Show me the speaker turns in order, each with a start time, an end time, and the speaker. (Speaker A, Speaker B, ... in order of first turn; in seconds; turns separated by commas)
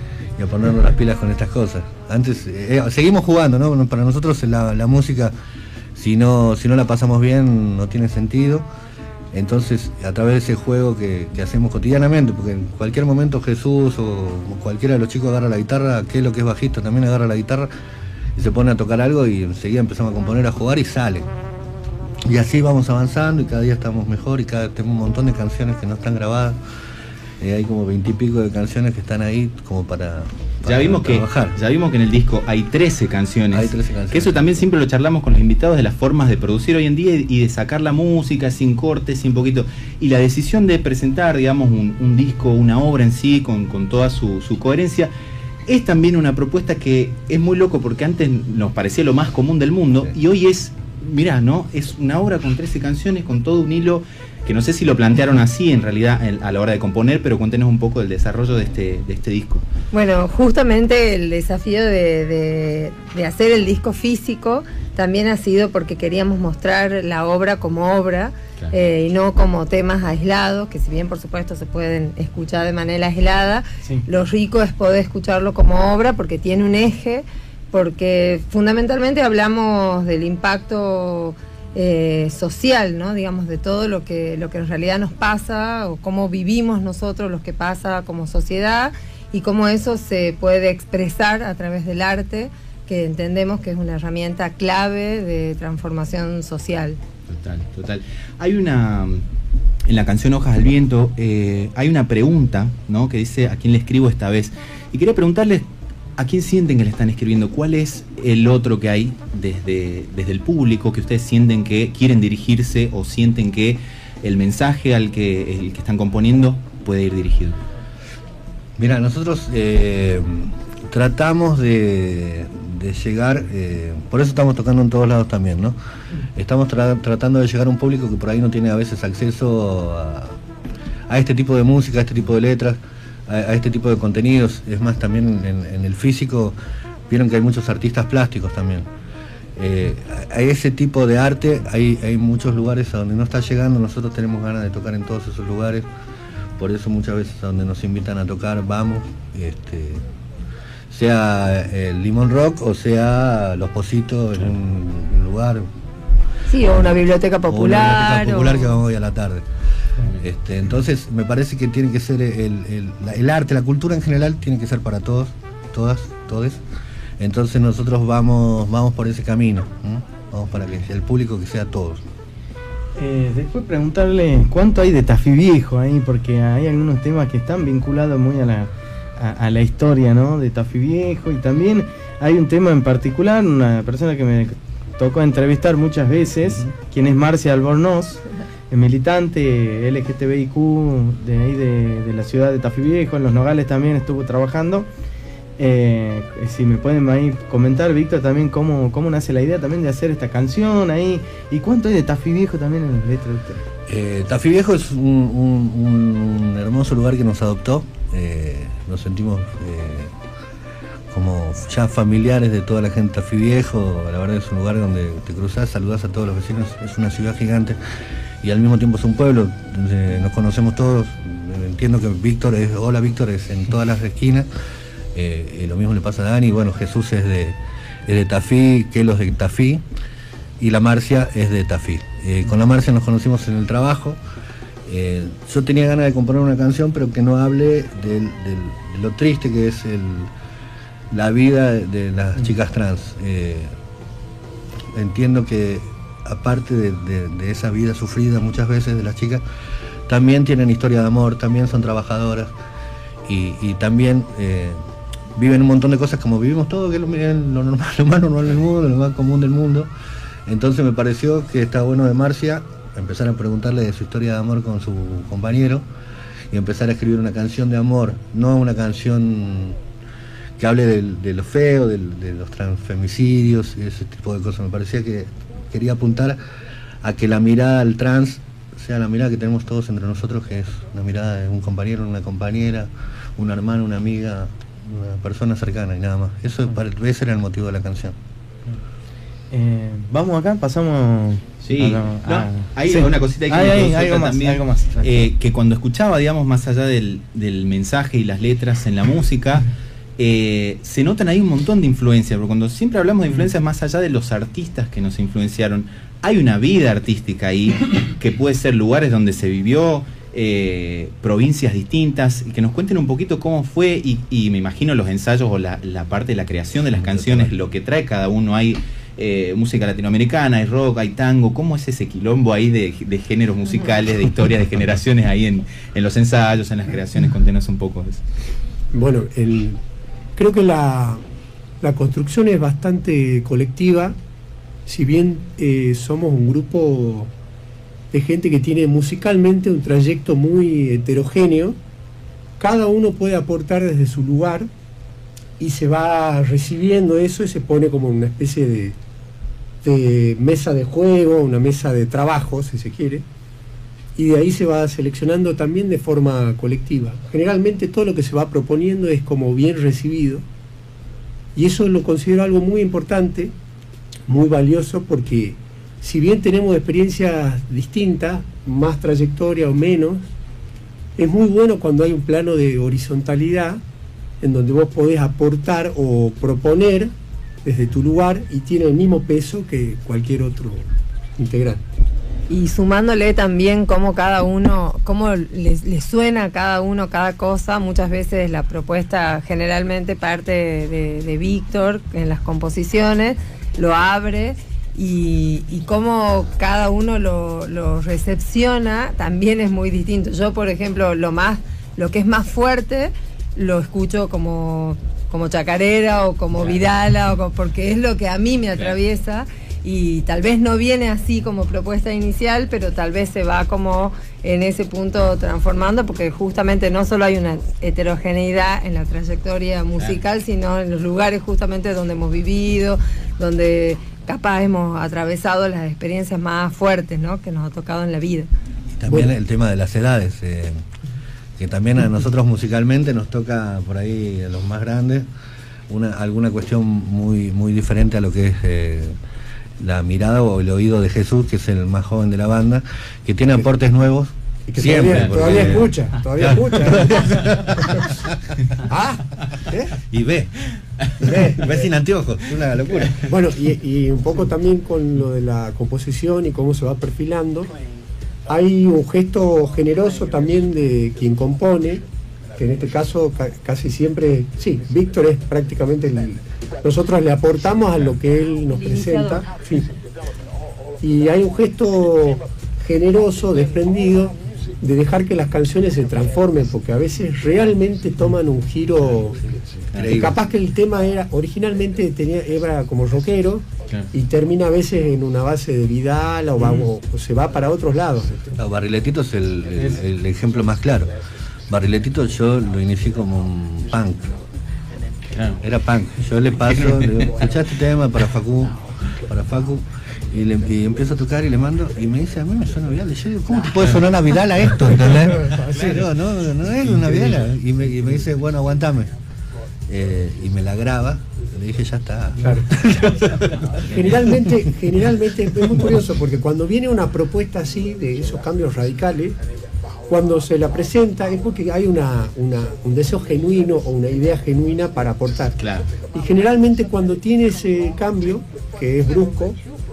Speaker A: 0.4-5.3, Speaker A: 6.0-8.7, Speaker A: 9.3-17.7, Speaker A: 18.4-21.3, Speaker A: 22.2-26.6, Speaker A: 27.4-31.6, Speaker B: 30.7-45.1, Speaker A: 33.5-34.6, Speaker B: 45.7-59.6, Speaker C: 59.9-97.0, Speaker B: 97.3-99.2, Speaker B: 99.9-105.7, Speaker B: 106.2-117.6, Speaker A: 118.8-125.8, Speaker A: 126.3-130.4, Speaker A: 131.1-136.6, Speaker A: 137.1-138.9, Speaker A: 139.6-145.8, Speaker A: 146.6-150.1, Speaker A: 150.9-155.7, Speaker C: 156.5-158.8, Speaker A: 157.5-159.4, Speaker A: 160.2-166.6, Speaker A: 167.2-172.0, Speaker D: 173.0-194.9, Speaker D: 195.6-203.6, Speaker A: 203.9-210.2, Speaker A: 211.1-217.8, Speaker A: 218.4-224.5, Speaker A: 225.1-229.8, Speaker A: 230.6-234.2, Speaker A: 234.9-240.3, Speaker A: 241.1-243.7, Speaker A: 244.9-249.4, Speaker A: 250.1-252.5, Speaker A: 253.2-254.8, Speaker A: 255.3-259.9, Speaker A: 260.5-265.9, Speaker A: 266.5-269.8, Speaker A: 270.6-276.4, Speaker A: 277.0-288.2, Speaker D: 289.5-295.2, Speaker B: 291.6-299.7, Speaker B: 300.2-328.2, Speaker A: 316.9-317.5, Speaker E: 328.9-329.8, Speaker E: 330.4-331.2, Speaker E: 331.8-334.2, Speaker E: 334.9-337.3, Speaker E: 338.1-341.8, Speaker E: 342.6-344.7, Speaker E: 345.6-349.0, Speaker E: 349.8-353.2, Speaker E: 354.2-360.4, Speaker E: 361.6-363.5, Speaker E: 364.3-370.3, Speaker E: 371.2-373.8, Speaker E: 374.4-377.1, Speaker E: 377.6-381.8, Speaker C: 382.5-428.5, Speaker A: 428.9-430.8, Speaker A: 431.6-435.3, Speaker A: 435.9-439.2, Speaker A: 439.8-448.5, Speaker E: 444.7-448.1, Speaker B: 445.1-445.9, Speaker E: 448.8-449.4, Speaker A: 449.7-450.5, Speaker A: 451.2-453.3, Speaker E: 451.2-451.9, Speaker E: 453.2-457.7, Speaker E: 458.5-462.0, Speaker E: 462.6-469.9, Speaker C: 468.7-469.4, Speaker E: 471.0-479.5, Speaker B: 479.9-480.3, Speaker A: 479.9-480.4, Speaker E: 480.1-488.4, Speaker B: 486.6-486.9, Speaker A: 488.6-491.1, Speaker A: 491.7-494.3, Speaker B: 495.3-495.6, Speaker A: 495.6-509.1, Speaker B: 496.7-497.3, Speaker E: 505.1-506.0, Speaker A: 509.9-514.7, Speaker E: 512.4-512.8, Speaker E: 513.9-519.4, Speaker E: 520.1-525.6, Speaker B: 525.6-525.9, Speaker E: 526.1-529.6